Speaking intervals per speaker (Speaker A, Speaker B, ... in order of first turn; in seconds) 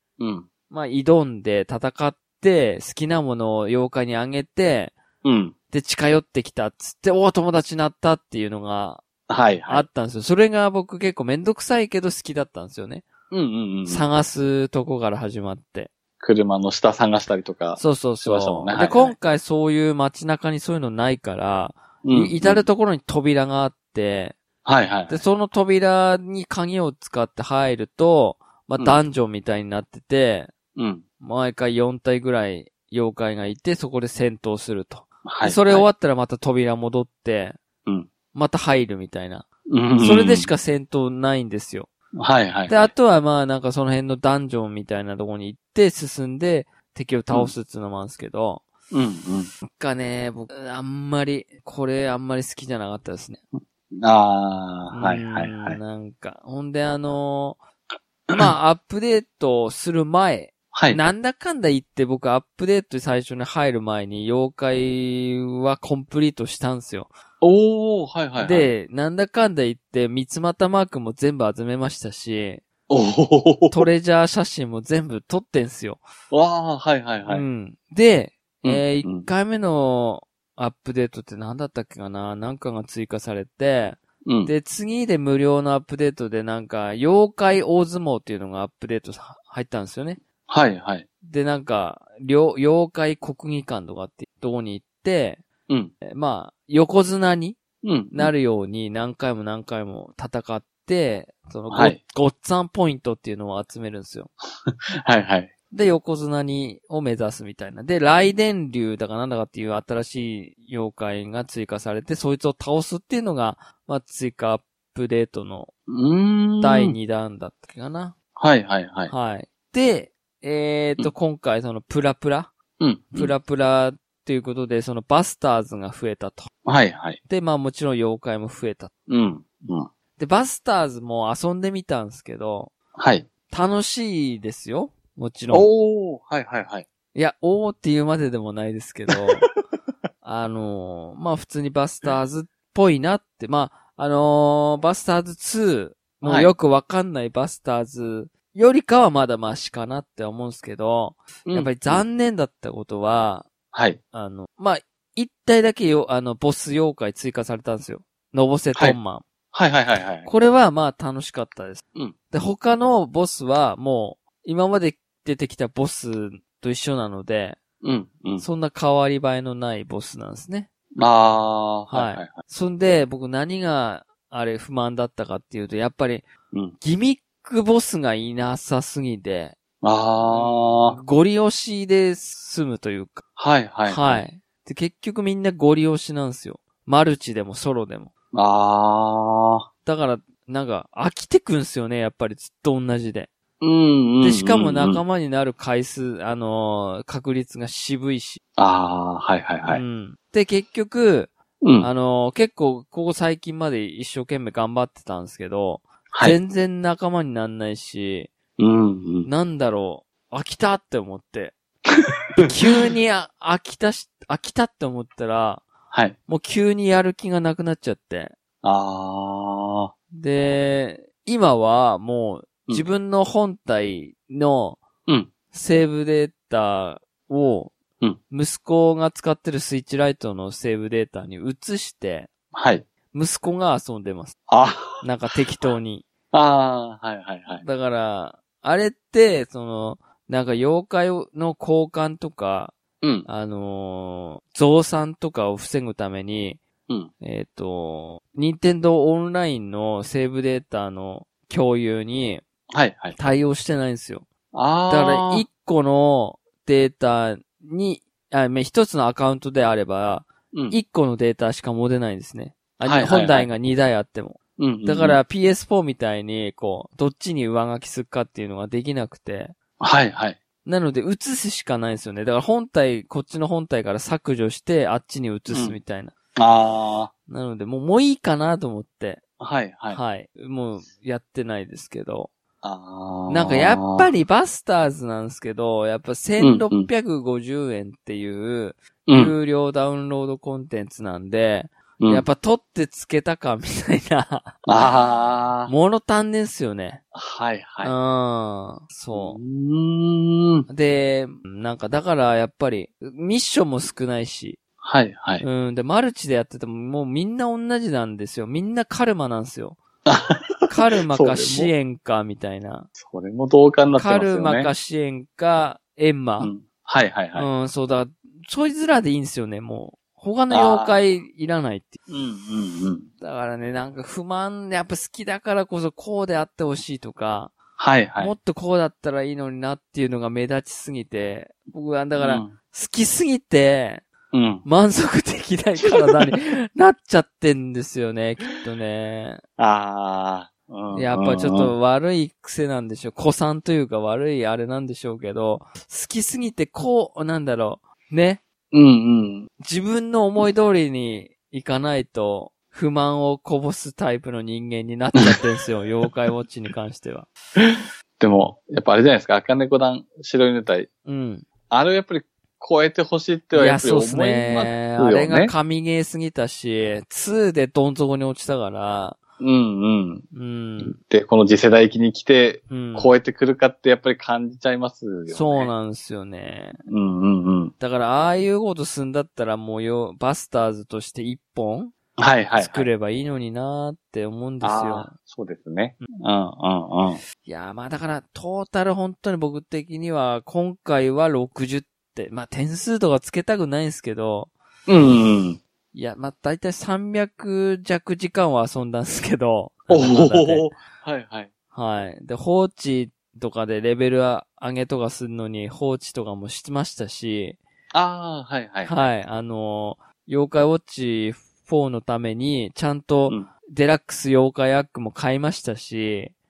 Speaker A: 0.2-0.5, 5.2-5.5, 9.3-9.9, 13.3-14.1, 16.2-19.1, 22.0-22.7, 24.6-25.2, 30.8-31.0, 35.2-35.9, 39.7-40.5, 42.2-42.9, 48.9-49.5, 53.9-55.8, 60.7-61.0, 67.4-68.7, 72.9-73.9, 76.3-77.5, 78.6-79.3, 84.2-84.5, 90.5-91.1, 97.8-98.3, 101.7-102.0, 104.7-105.5, 115.9-117.0, 118.4-119.1, 122.8-123.3, 126.7-127.2, 129.1-129.9, 133.0-133.3, 135.5-136.9, 146.2-146.5, 151.5-152.0, 153.7-154.0, 159.5-160.3, 167.8-168.5, 171.0-172.3, 179.8-181.0, 183.4-184.2, 188.3-189.7, 193.6-195.0, 198.6-199.8, 201.6-201.9, 206.1-206.4, 208.6-209.3, 218.6-219.9, 232.5-232.9, 234.5-235.0, 236.3-237.7, 243.0-243.3, 252.7-253.2, 254.5-255.5, 260.5-260.8, 262.8-263.5, 264.6-265.2, 269.8-270.4, 275.5-275.8, 276.4-277.1, 279.4-280.0, 282.6-284.1, 286.4-286.9, 289.1-289.3, 292.0-292.3, 294.7-295.7, 297.1-297.9, 299.1-300.7, 304.8-305.4, 310.1-311.7, 313.0-314.7, 316.4-317.5, 320.5-321.0, 322.1-323.1, 327.8-328.3, 332.2-332.5, 334.3-334.7, 339.6-341.7, 348.7-349.5, 357.6-360.9, 361.7-365.5, 369.4-370.3, 370.8-375.7, 376.9-377.7, 382.2-382.9, 384.6-387.2, 394.9-395.6, 399.9-401.5, 407.9-409.1
Speaker B: 0.7-5.0, 5.7-9.0, 9.7-13.1, 13.9-15.9, 17.8-24.4, 25.1-30.5, 31.2-37.6, 38.3-39.5, 40.0-41.9, 42.7-48.6, 49.6-53.4, 54.9-57.6, 58.3-67.1, 68.4-72.6, 73.7-76.0, 77.2-90.2, 91.2-95.4, 96.1-97.6, 98.1-104.3, 105.7-115.7, 116.6-118.2, 119.1-122.5, 123.1-126.5, 127.3-128.9, 130.2-132.7, 133.5-135.7, 137.1-139.5, 140.2-153.5, 154.1-159.2, 160.2-167.6, 168.4-170.7, 171.9-176.3, 176.8-179.6, 180.2-183.3, 183.8-188.1, 189.8-193.3, 194.2-198.4, 199.7-208.3, 209.2-211.6, 212.4-215.7, 216.3-218.3, 220.1-224.8, 225.5-227.8, 228.3-232.3, 233.1-234.4, 235.0-236.1, 237.6-242.8, 243.3-246.6, 247.2-252.4, 253.2-254.3, 254.9-269.6, 270.6-276.1, 277.3-279.2, 279.9-282.3, 283.3-294.9, 295.7-297.0, 297.8-299.4, 300.7-304.6, 305.4-309.8, 310.7-312.9, 313.9-316.5, 317.4-322.0, 323.2-327.5, 328.2-334.1, 334.6-339.4, 340.9-348.4, 349.6-357.3, 361.1-361.5, 363.5-369.2, 370.3-371.0, 372.7-373.1, 375.3-376.8, 377.8-381.9, 382.6-385.1, 387.4-394.5, 395.9-400.7, 401.7-407.6, 408.8-416.3